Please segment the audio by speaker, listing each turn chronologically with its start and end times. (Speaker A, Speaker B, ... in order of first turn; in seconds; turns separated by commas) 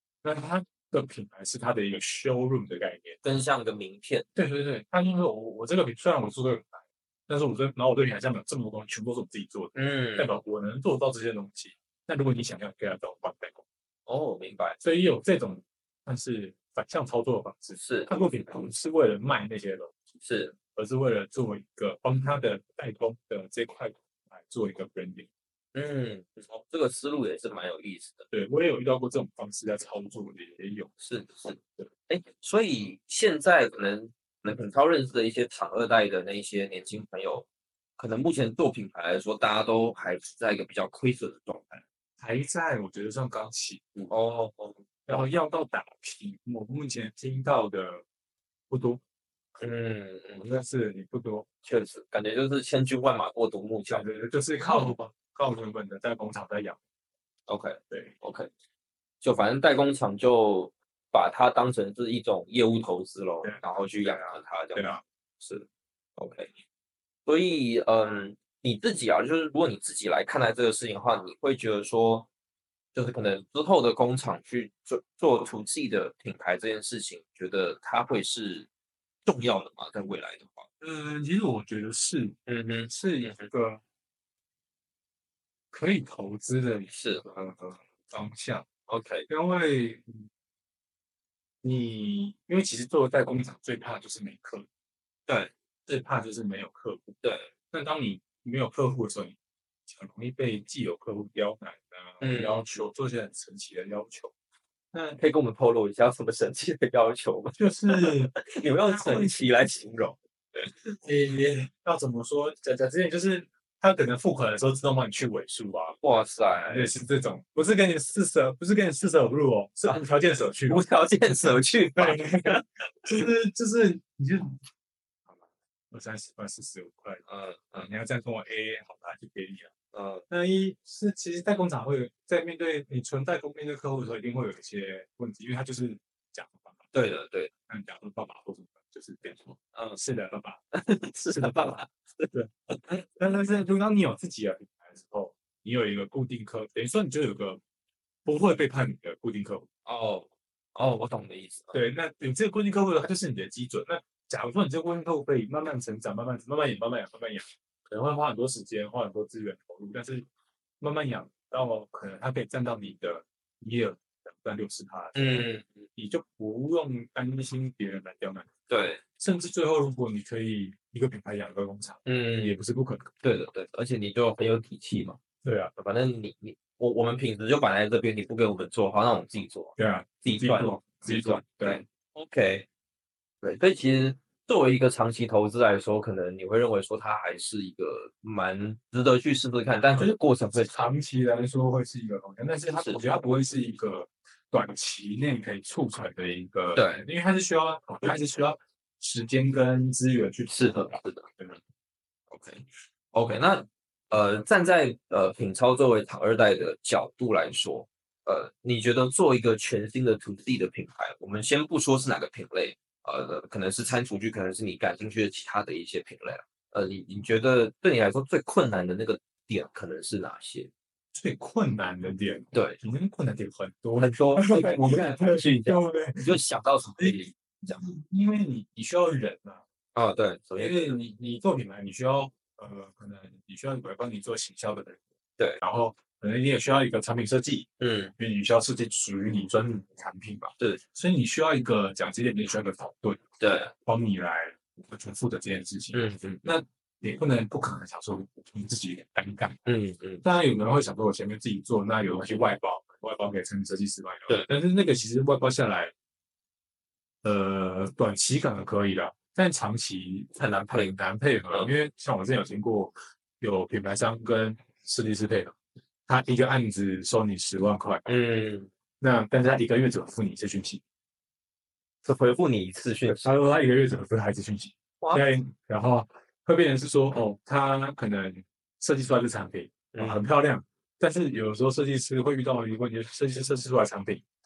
Speaker A: 0.2-3.2, Speaker B: 3.2-4.3, Speaker A: 4.4-13.6, Speaker B: 9.8-10.3, Speaker B: 14.1-14.8, Speaker A: 14.8-20.1, Speaker B: 17.8-18.1, Speaker B: 20.2-20.6, Speaker A: 20.7-25.3, Speaker B: 25.7-28.3, Speaker A: 28.3-30.9, Speaker B: 31.0-37.5, Speaker B: 38.0-41.8, Speaker A: 42.2-44.1, Speaker B: 44.0-45.2, Speaker A: 45.1-48.0, Speaker A: 48.7-49.0, Speaker B: 49.6-50.5, Speaker A: 50.4-51.5, Speaker B: 51.6-54.0, Speaker A: 53.9-56.8, Speaker B: 57.5-58.5, Speaker B: 59.2-65.7, Speaker A: 63.4-65.0, Speaker B: 66.2-66.5, Speaker B: 67.3-72.3, Speaker B: 72.9-78.7, Speaker B: 79.2-80.7, Speaker A: 80.8-82.4, Speaker B: 82.5-83.5, Speaker A: 82.9-83.8, Speaker A: 85.7-88.7, Speaker B: 86.9-87.3, Speaker B: 88.9-89.3, Speaker A: 89.3-90.3, Speaker A: 91.6-94.7, Speaker B: 95.3-95.5, Speaker A: 95.9-97.2, Speaker B: 97.2-97.5, Speaker A: 97.7-99.4, Speaker A: 99.9-104.3, Speaker B: 102.2-102.7, Speaker A: 104.9-105.2, Speaker B: 105.2-110.7, Speaker A: 107.6-108.3, Speaker A: 108.9-109.4, Speaker A: 111.0-116.0, Speaker B: 116.0-116.9, Speaker A: 116.7-120.9, Speaker B: 120.7-122.7, Speaker A: 121.5-124.6, Speaker A: 125.3-127.2, Speaker B: 127.3-127.9, Speaker A: 127.8-129.7, Speaker B: 129.9-130.2, Speaker A: 130.3-136.8, Speaker B: 136.9-137.5, Speaker A: 137.7-140.6, Speaker B: 139.7-140.0, Speaker B: 140.7-142.8, Speaker A: 141.3-141.8, Speaker A: 142.3-147.6, Speaker A: 148.2-149.7, Speaker B: 149.9-151.8, Speaker A: 151.7-160.3, Speaker A: 160.8-168.5, Speaker B: 165.2-165.8, Speaker B: 168.7-169.0, Speaker A: 169.2-173.1, Speaker B: 172.1-172.6, Speaker B: 173.2-175.2, Speaker A: 175.4-175.7, Speaker B: 175.8-182.7, Speaker A: 179.8-181.8, Speaker B: 183.4-190.9, Speaker A: 189.9-201.6, Speaker B: 192.8-193.0, Speaker B: 196.8-197.1, Speaker B: 200.4-201.3, Speaker B: 202.3-220.7, Speaker A: 221.1-226.4, Speaker B: 222.5-222.8, Speaker B: 224.0-227.9, Speaker A: 227.7-229.6, Speaker B: 229.9-231.0, Speaker A: 230.6-235.0, Speaker A: 235.6-243.2, Speaker B: 237.8-238.1, Speaker B: 243.4-243.7, Speaker A: 243.8-249.6, Speaker B: 245.9-246.4, Speaker B: 249.7-250.2, Speaker A: 250.2-255.9, Speaker A: 257.2-265.6, Speaker B: 260.4-260.9, Speaker A: 266.1-268.1, Speaker B: 268.1-268.7, Speaker A: 269.0-270.8, Speaker B: 272.0-273.3, Speaker A: 273.1-284.2, Speaker B: 279.9-280.2